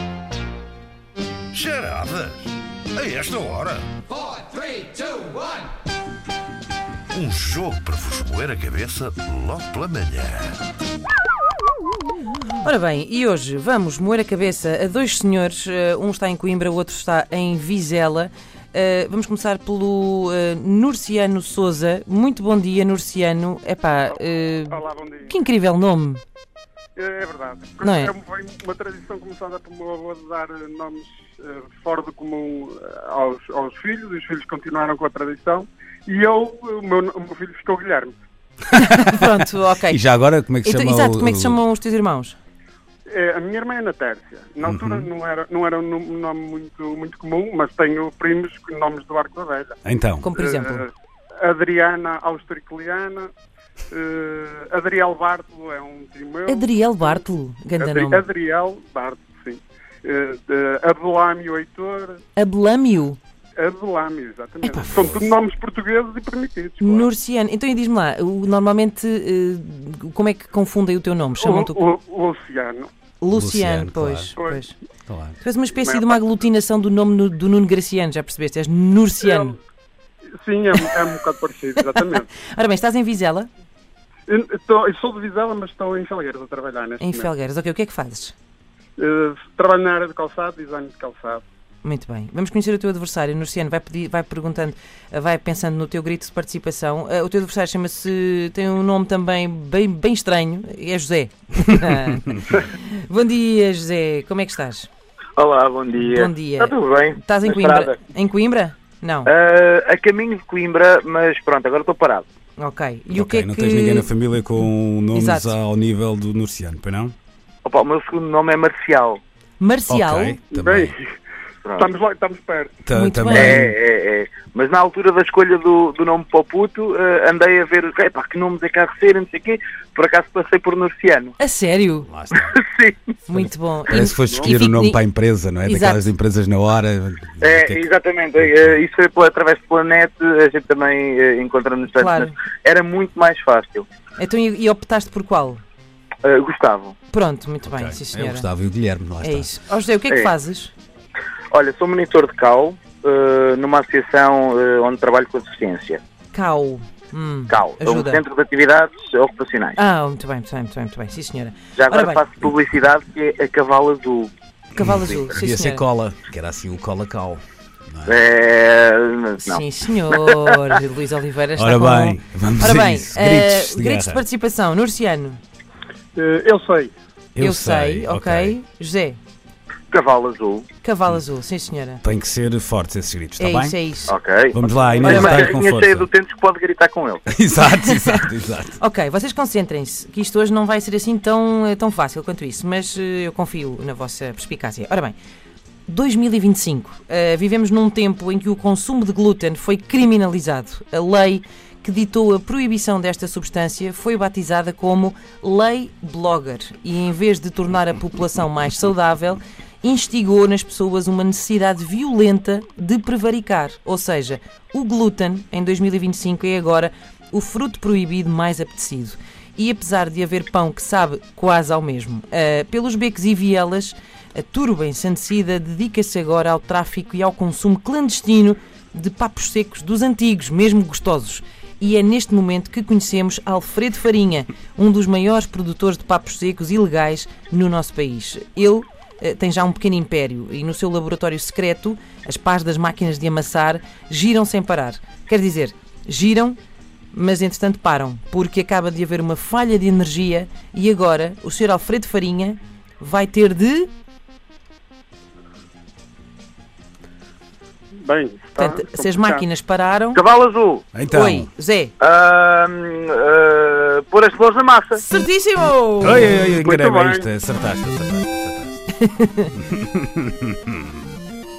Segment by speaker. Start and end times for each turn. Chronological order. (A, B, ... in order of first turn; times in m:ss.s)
0:01.5-0:03.9 A
0:07.1-0:10.6 A
0:12.6-0:26.2 B
0:24.7-0:25.3 C
0:27.0-0:38.2 C
0:27.8-0:28.1 B
0:38.7-0:40.0 B
0:39.9-0:41.6 D
0:40.6-0:42.4 B
0:43.1-0:49.7 C
0:44.6-0:45.1 D
0:49.8-0:50.3 D
0:50.2-0:50.8 B
0:50.4-0:50.9 C
0:51.4-0:53.3 C
0:53.9-0:57.2 C
0:56.5-0:58.3 B
0:57.8-1:02.2 C
1:02.4-1:03.2 B
1:03.6-1:07.1 C
1:04.6-1:05.3 D
1:06.8-1:11.8 B
1:11.4-1:12.9 C
1:13.2-1:14.8 B
1:13.3-1:14.3 D
1:15.1-1:15.4 D
1:15.4-1:19.6 B
1:15.8-1:16.2 C
1:19.2-1:19.5 C
1:20.4-1:22.3 C
1:20.8-1:21.0 B
1:22.0-1:23.5 B
1:24.3-1:27.3 C
1:27.0-1:28.4 B
1:29.0-1:31.4 C
1:31.8-1:44.9 B
1:45.4-1:48.0 E
1:46.0-1:49.3 B
1:49.3-1:52.3 E
1:52.6-1:54.1 B
1:53.1-1:57.1 D
1:55.1-1:55.6 B
1:57.6-1:59.2 E
1:59.6-2:00.4 B
1:59.9-2:01.0 D
2:00.5-2:01.1 C
2:01.8-2:02.8 C
2:02.9-2:03.8 D
2:02.9-2:03.6 B
2:03.3-2:11.4 E
2:11.4-2:12.1 B
2:12.1-2:12.6 D
2:12.3-2:13.0 E
2:13.3-2:15.0 B
2:13.9-2:18.8 D
2:15.6-2:16.1 B
2:17.4-2:23.9 E
2:21.9-2:22.4 B
2:24.2-2:25.6 B
2:26.2-2:27.0 E
2:27.1-2:28.5 B
2:27.7-2:29.5 D
2:29.2-2:30.7 B
2:31.5-2:36.0 E
2:36.3-2:38.2 B
2:37.5-2:39.8 E
2:39.8-2:42.2 B
2:41.8-2:44.3 E
2:44.8-2:45.8 B
2:44.8-2:48.2 D
2:48.1-2:50.4 E
2:49.4-2:55.4 B
2:51.6-2:54.2 D
2:56.2-2:56.9 C
2:57.4-2:58.6 D
2:57.4-2:59.2 B
2:59.9-3:00.7 E
3:00.8-3:02.0 B
3:02.0-3:03.8 D
3:03.4-3:04.2 B
3:04.1-3:07.3 E
3:04.5-3:06.1 D
3:05.1-3:05.5 B
3:07.3-3:08.8 D
3:07.7-3:08.2 B
3:08.8-3:15.2 B
3:15.9-4:06.6 B
4:07.1-4:13.9 B
4:18.0-4:19.4 C
4:18.6-4:20.2 B
4:20.1-4:20.8 E
4:20.9-4:21.5 D
4:21.1-4:21.9 B
4:22.0-4:25.0 E
4:25.0-4:26.4 B
4:26.0-4:28.8 D
4:26.6-4:27.2 C
4:28.9-4:29.5 B
4:29.7-4:30.8 D